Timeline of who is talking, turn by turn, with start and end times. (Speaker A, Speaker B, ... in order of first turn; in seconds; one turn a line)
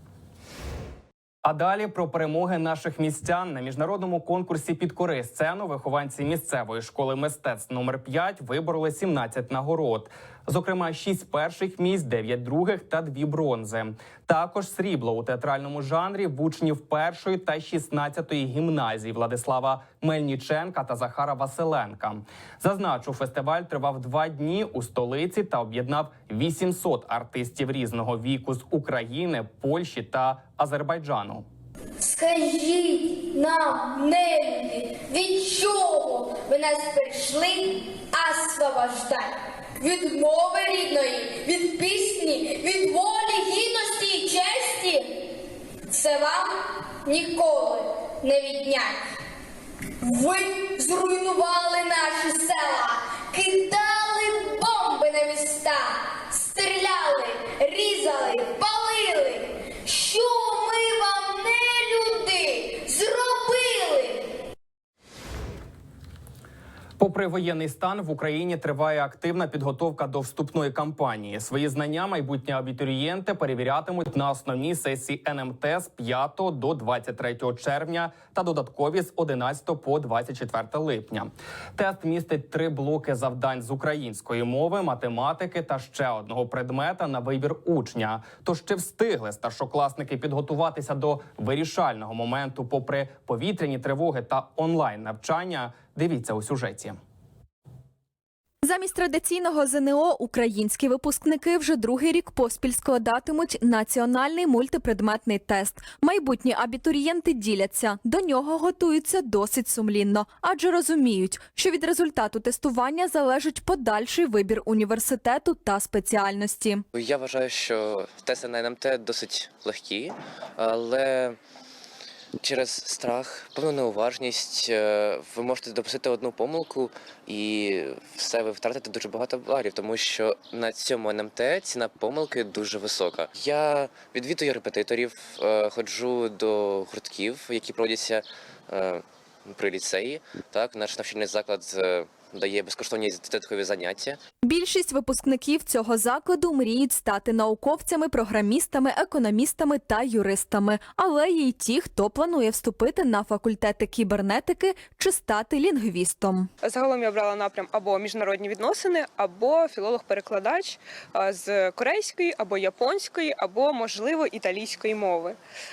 Speaker A: 1.4-31.5
Speaker B: 32.0-45.3
Speaker B: 45.9-49.0
Speaker B: 50.0-64.4
Speaker A: 67.0-97.0
Speaker C: 98.6-116.8
Speaker D: 116.9-121.4
Speaker D: 122.4-144.2
Speaker C: 144.4-156.5
Speaker E: 156.7-165.3